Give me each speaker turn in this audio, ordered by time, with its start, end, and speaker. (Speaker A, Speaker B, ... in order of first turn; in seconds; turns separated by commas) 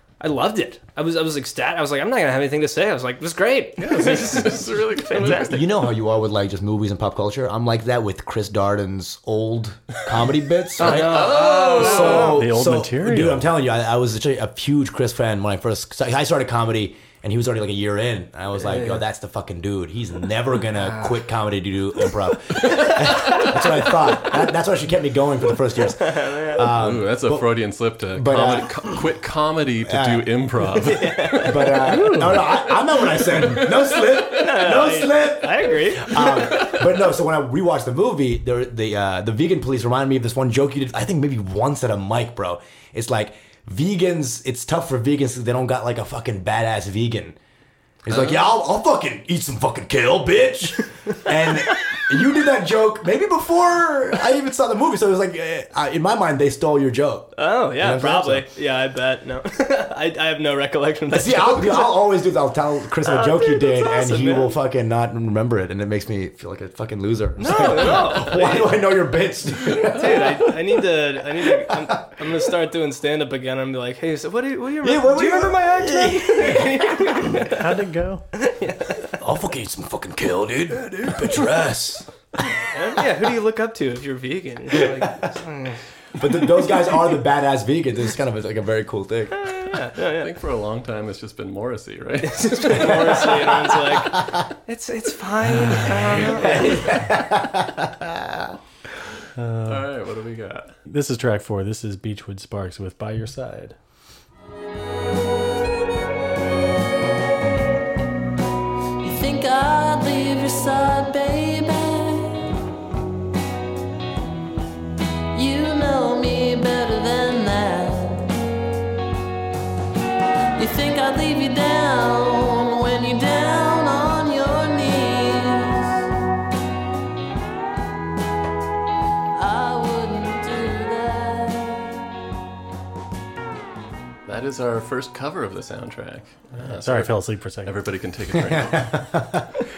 Speaker A: 0.2-5.6, Speaker B: 3.8-5.6, Speaker C: 5.3-27.6, Speaker B: 10.8-12.3, Speaker A: 10.8-12.4, Speaker D: 12.1-13.5, Speaker A: 18.6-19.0, Speaker B: 22.8-23.5, Speaker A: 26.0-26.7, Speaker B: 26.6-31.7, Speaker C: 28.1-29.0, Speaker C: 29.8-30.4, Speaker A: 30.8-31.6, Speaker C: 31.4-47.4, Speaker D: 31.9-32.5, Speaker B: 33.6-34.2, Speaker A: 34.3-36.5, Speaker C: 48.0-58.5, Speaker A: 57.4-62.0, Speaker C: 61.1-70.5, Speaker A: 63.0-64.6, Speaker A: 67.4-68.7, Speaker A: 69.9-77.6, Speaker C: 74.8-77.2, Speaker D: 77.5-78.2, Speaker A: 78.4-79.1, Speaker C: 79.1-82.1, Speaker A: 82.5-85.8, Speaker C: 84.7-85.1, Speaker C: 86.2-89.5, Speaker A: 89.4-90.3, Speaker B: 90.1-93.4, Speaker A: 92.3-96.9, Speaker C: 92.8-93.4, Speaker D: 95.6-96.1, Speaker C: 96.4-98.5, Speaker D: 99.4-99.9, Speaker B: 99.7-100.8, Speaker D: 100.9-103.8, Speaker E: 109.0-112.5, Speaker E: 115.3-118.3, Speaker E: 120.6-126.0, Speaker E: 129.3-131.9, Speaker B: 134.3-139.1, Speaker D: 136.5-137.8, Speaker C: 138.5-139.5